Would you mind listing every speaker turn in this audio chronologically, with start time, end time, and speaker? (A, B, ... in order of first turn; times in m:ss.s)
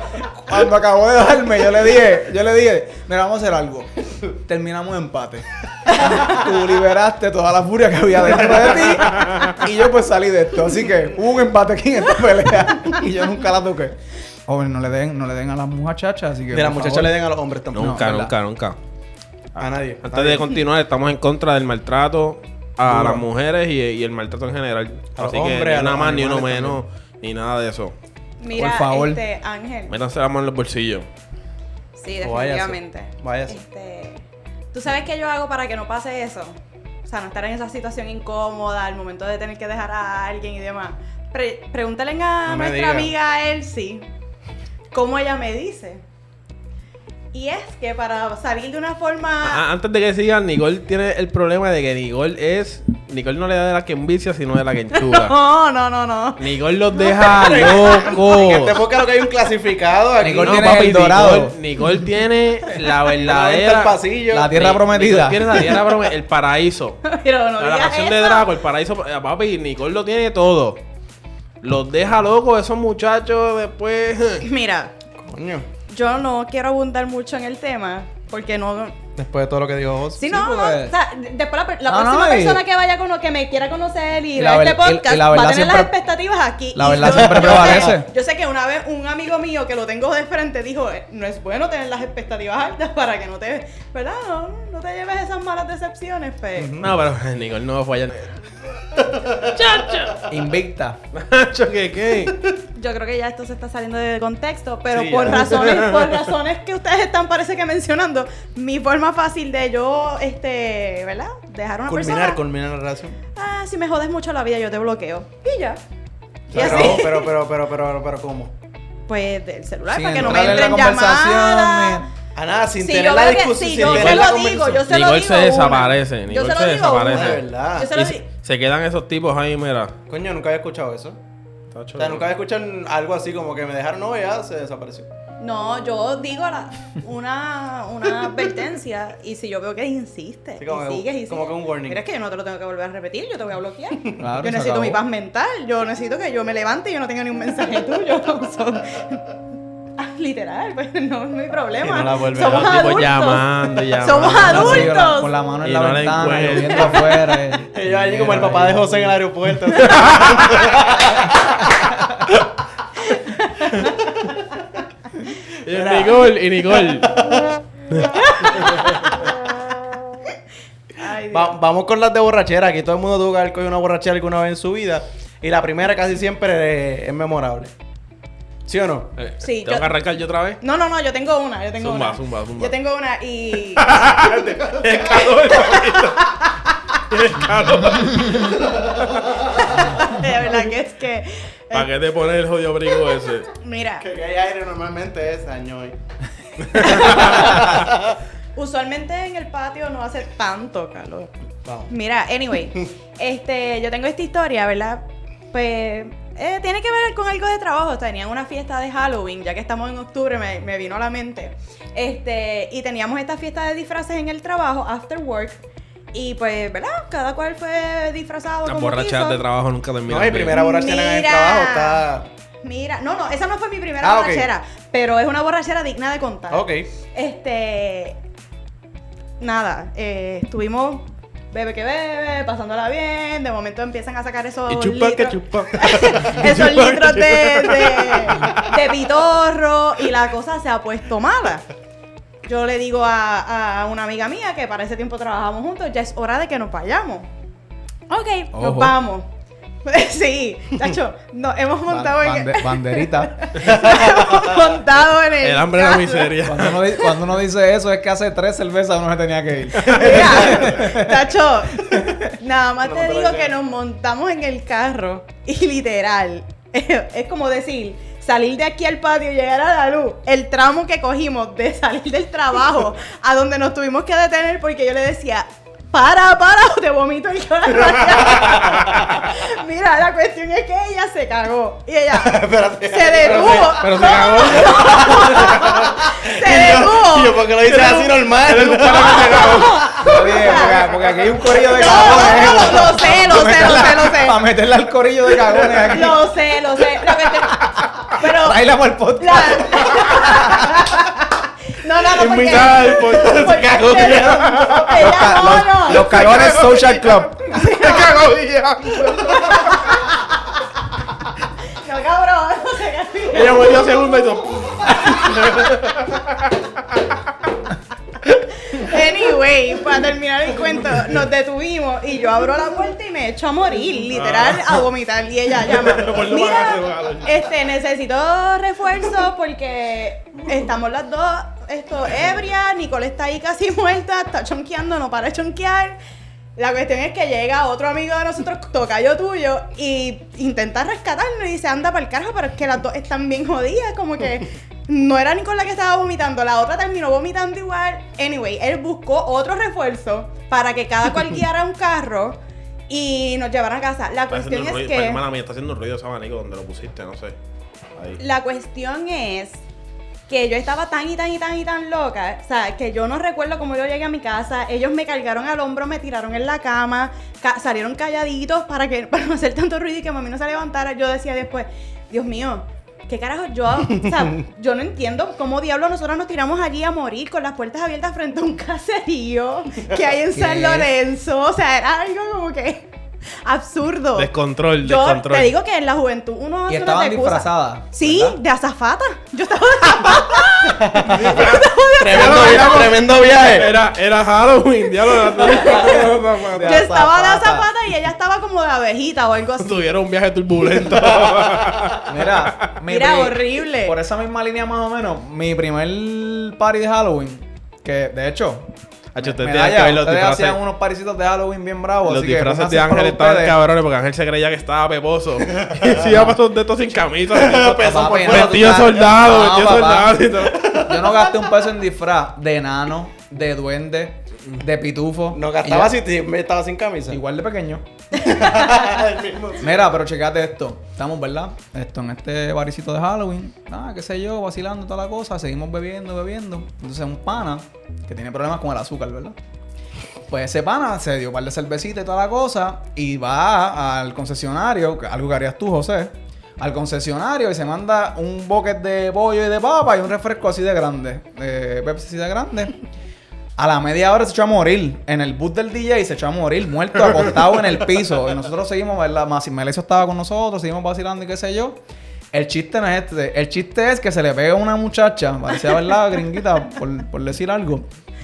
0:00.2-0:17.2 A
0:08.8-0:09.5 B
0:16.5-0:18.0 C
0:17.7-0:18.8 B
0:17.8-0:18.3 A
0:19.5-0:27.9 B
0:19.6-0:20.6 C
0:22.9-0:23.2 C
0:25.2-0:26.8 C
0:28.4-0:30.0 D
0:28.5-0:29.2 A
0:29.9-0:31.1 B
0:32.0-0:44.1 D
0:32.2-0:33.6 C
0:42.4-0:43.1 C
0:44.9-0:46.0 D
0:47.3-0:49.6 D
0:49.4-0:55.3 B
0:54.9-0:58.0 D
0:56.4-0:58.8 B
0:57.3-1:00.8 C
1:00.2-1:01.6 A
1:00.4-1:07.0 B
1:03.1-1:04.5 C
1:04.3-1:05.8 A
1:07.0-1:08.5 D
1:07.6-1:10.8 B
1:11.6-1:14.4 B
1:14.4-1:14.9 D
1:15.2-1:15.7 C
1:15.9-1:19.0 D
1:19.2-1:20.2 C
1:20.2-1:36.8 D
1:20.2-1:20.9 A
1:21.9-1:22.6 A
1:24.4-1:25.9 A
1:26.7-1:28.1 A
1:27.0-1:27.9 C
1:36.6-1:36.9 C
1:36.8-1:38.4 B
1:39.1-1:39.4 C
1:39.3-1:40.2 B
1:40.3-1:41.0 A
1:41.1-1:42.4 B
1:42.7-1:52.4 D
1:44.9-1:46.0 C
1:45.2-1:46.3 B
1:51.9-1:53.2 C
1:53.3-1:55.8 D
1:56.5-1:57.1 A
1:56.5-1:57.3 D
1:56.5-1:58.5 C
1:59.0-2:02.0 D
1:59.9-2:02.1 A
2:02.3-2:04.8 C
2:02.8-2:08.2 D
2:03.8-2:09.9 B
2:07.1-2:07.9 C
2:10.1-2:11.2 C
2:11.7-2:12.3 B
2:12.0-2:15.1 C
2:15.4-2:29.4 D
2:20.6-2:22.0 C
2:24.2-2:25.0 A
2:30.0-2:35.4 D
2:31.8-2:32.9 C
2:32.4-2:35.0 B
2:34.4-2:39.2 A
2:35.6-2:37.0 B
2:37.6-2:41.8 C
2:39.8-2:40.8 B
2:43.3-2:43.9 D
2:45.6-2:47.2 B
2:45.7-2:47.5 C
2:47.9-2:48.7 B
2:48.1-2:49.1 D
2:50.9-2:51.6 D
2:51.3-2:57.7 C
2:58.6-2:59.1 C
2:59.2-3:00.6 B
2:59.4-3:00.0 D
3:00.6-3:04.0 D
3:01.8-3:02.8 B
3:03.8-3:06.4 B
3:05.4-3:06.5 D
3:07.1-3:09.0 B
3:08.1-3:08.4 A
3:09.5-3:11.9 D
3:11.7-3:13.5 B
3:13.5-3:14.0 D
3:14.0-3:16.0 C
3:16.6-3:17.5 B
3:16.8-3:18.2 C
3:16.8-3:17.7 D
3:18.5-3:21.3 D
3:21.6-3:21.9 C
3:21.9-3:35.6 D
3:36.1-3:39.4 D
3:38.6-3:40.6 B
3:40.1-3:42.3 C
3:40.5-3:42.0 D
3:42.6-3:48.2 D
3:44.0-3:44.5 C
3:46.5-3:46.9 C
3:49.4-4:01.6 D
3:54.7-3:58.7 B
4:02.4-4:07.3 D
4:08.1-4:09.3 D
4:08.5-4:09.0 A
4:09.8-4:16.4 D
4:11.9-4:13.4 A
4:13.6-4:14.7 C
4:15.4-4:16.9 B
4:16.4-4:22.2 A
4:19.7-4:20.6 B
4:19.8-4:47.5 D
4:22.8-4:23.5 C
4:38.5-4:39.1 B
4:42.1-4:43.8 C
4:43.2-4:45.9 B
4:44.6-4:49.8 C
4:47.6-4:49.9 B
4:49.1-4:54.4 D
4:50.0-4:56.2 A
4:51.7-4:52.9 C
4:55.6-5:06.7 D
4:57.1-5:00.9 A
5:02.1-5:05.2 B
5:02.5-5:04.7 C
5:05.0-5:07.4 A
5:05.9-5:09.9 B
5:07.5-5:08.2 D
5:08.8-5:10.4 D
5:11.7-5:14.3 D
5:13.3-5:16.7 B
5:14.8-5:15.6 D
5:18.5-5:36.0 D
5:24.1-5:24.9 B
5:25.5-5:27.5 B
5:36.6-5:55.2 D
5:54.3-5:57.4 B
5:58.2-5:59.6 D
6:00.3-6:22.9 D
6:20.3-6:20.9 A
6:23.4-6:33.0 D
6:24.2-6:25.5 B
6:26.7-6:28.4 A
6:30.6-6:31.4 C
6:31.0-6:36.9 B
6:32.0-6:33.7 C
6:35.1-6:39.7 D
6:36.5-6:37.7 A
6:39.6-6:42.7 B
6:42.0-6:53.5 A
6:42.9-6:43.9 D
6:49.1-6:50.6 B
6:52.1-7:01.0 B
6:56.0-6:56.3 A
6:57.3-6:59.1 C
6:57.5-7:06.0 A
7:05.3-7:07.2 C
7:07.1-7:07.8 A
7:08.1-7:09.8 C
7:08.3-7:08.8 D
7:09.6-7:19.4 A
7:20.3-7:32.7 A
7:33.6-7:41.8 A
7:42.3-7:47.9 A